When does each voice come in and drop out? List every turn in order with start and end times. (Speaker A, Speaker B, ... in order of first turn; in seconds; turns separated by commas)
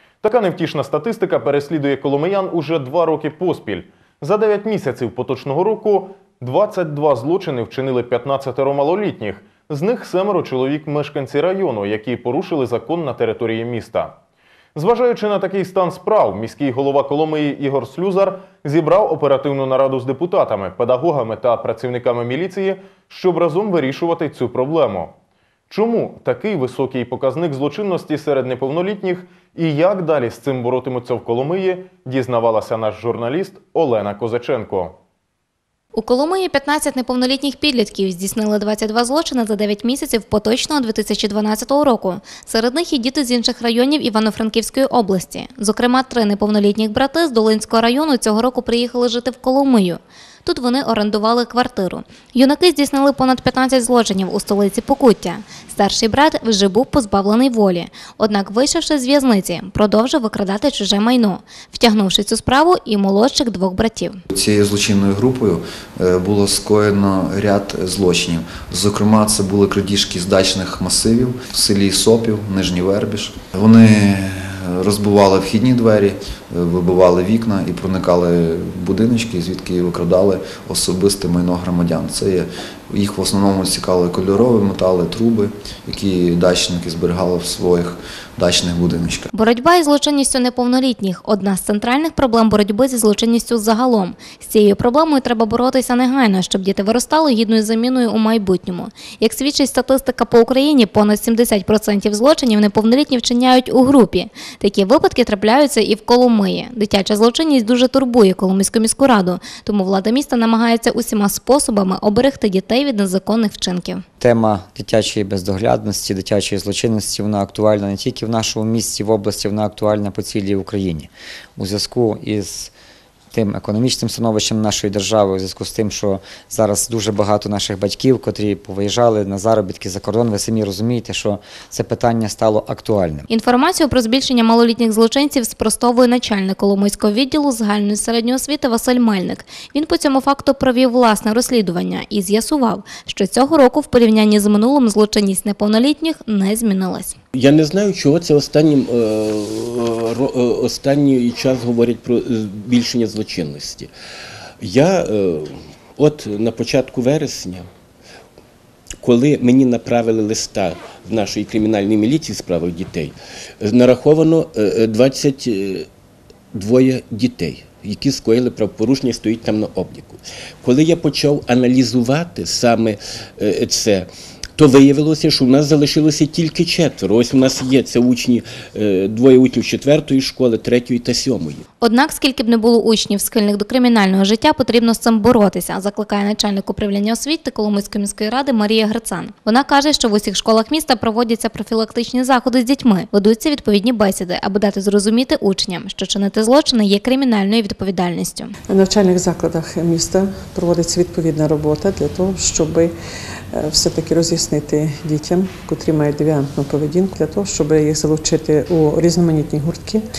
Speaker A: 0.2-14.1, Speaker A: 14.7-25.1, Speaker A: 25.7-34.9, Speaker B: 35.9-64.2, Speaker C: 64.3-89.3, Speaker B: 89.3-114.0, Speaker D: 114.2-122.7, Speaker D: 123.3-133.3, Speaker B: 133.3-147.2, Speaker E: 147.3-153.9, Speaker E: 154.6-157.7, Speaker E: 159.0-165.9, Speaker E: 166.5-181.6, Speaker B: 181.8-198.5, Speaker F: 198.7-202.9, Speaker F: 203.5-210.0